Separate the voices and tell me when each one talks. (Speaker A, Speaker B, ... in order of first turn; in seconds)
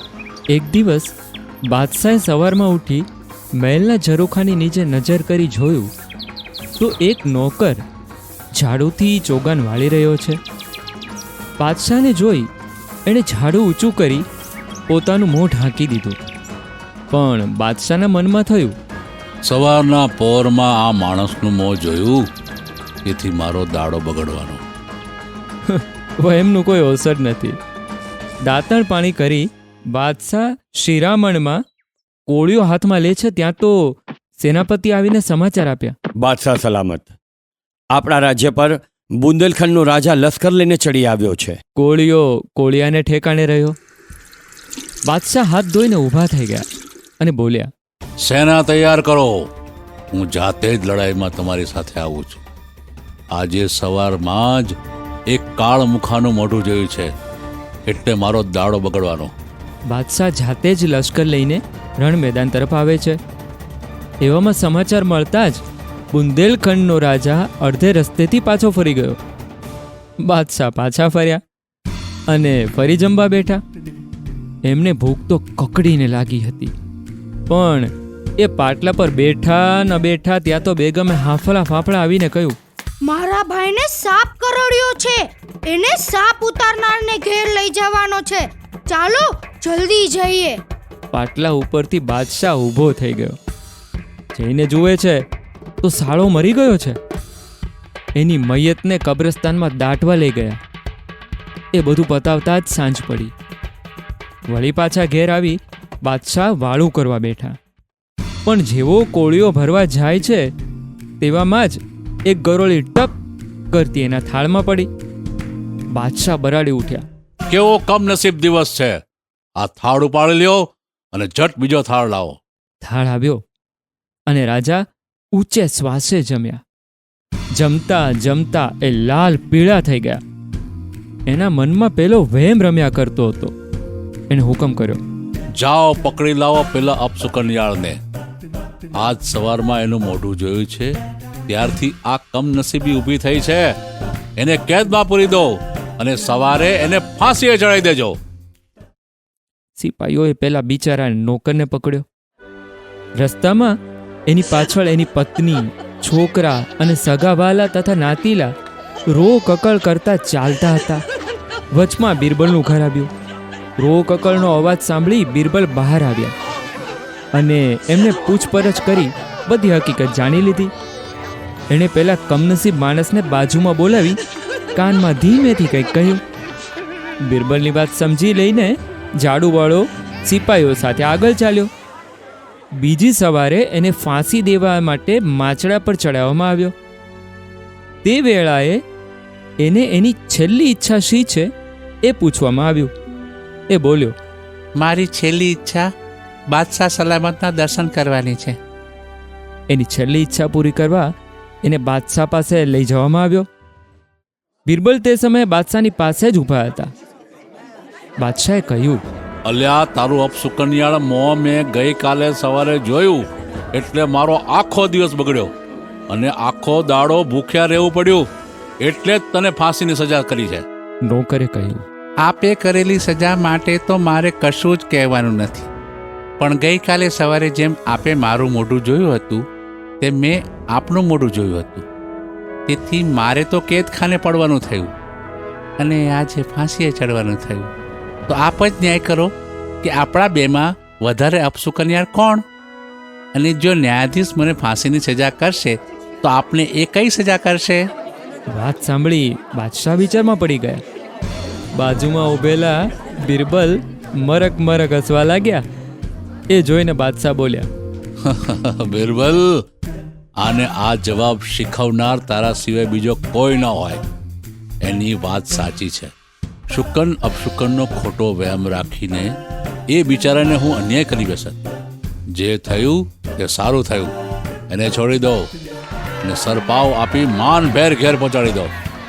Speaker A: 0.5-1.1, 1.7-5.9, 6.8-7.8, 8.5-10.4, 11.6-12.5, 13.1-14.2, 14.9-16.2, 17.1-18.8, 25.6-27.6, 28.4-31.6, 32.3-35.9, 41.8-43.8, 45.1-46.6, 47.2-47.7, 59.9-63.2, 64.2-69.2, 70.2-71.4, 72.3-73.6, 74.6-76.7, 77.5-82.6, 91.1-93.4, 94.3-95.2, 95.8-97.0, 98.2-100.6, 101.7-103.3, 104.5-107.6, 108.5-110.5, 111.2-113.2, 113.7-114.9, 115.9-117.0, 122.8-123.4, 124.3-126.6, 127.5-130.2, 131.3-133.5, 134.3-135.0, 149.8-152.0, 153.2-153.8, 154.3-158.5, 159.1-161.0, 161.7-163.1, 163.8-166.3, 167.3-170.7, 171.7-174.2, 174.7-176.2, 177.2-181.7, 182.7-186.7, 188.0-188.8, 189.6-191.5, 192.0-192.9, 193.7-194.2, 199.7-201.1, 201.6-203.5, 204.7-206.9, 208.2-209.0, 221.1-221.8, 248.5-250.8, 251.7-255.6, 256.5-257.7
Speaker B: 19.4-22.2, 23.0-24.6, 48.2-49.4, 50.1-52.4, 53.3-54.7, 55.3-57.1, 57.9-59.3, 117.5-119.0, 119.6-122.4, 135.6-138.0, 138.9-140.9, 141.5-143.7, 144.4-148.2, 209.4-215.5, 216.1-218.3, 218.8-220.7, 258.2-259.6, 260.4-264.0, 264.8-266.1, 266.7-269.4, 269.9-271.6, 272.3-274.1, 274.7-275.5, 276.2-278.7
Speaker C: 36.2-37.1, 37.9-41.6
Speaker D: 83.0-90.6
Speaker E: 194.8-195.9, 196.5-198.6, 222.2-225.7, 226.4-229.4, 230.0-231.8, 232.7-234.9, 235.8-237.7, 238.3-242.4, 243.3-247.9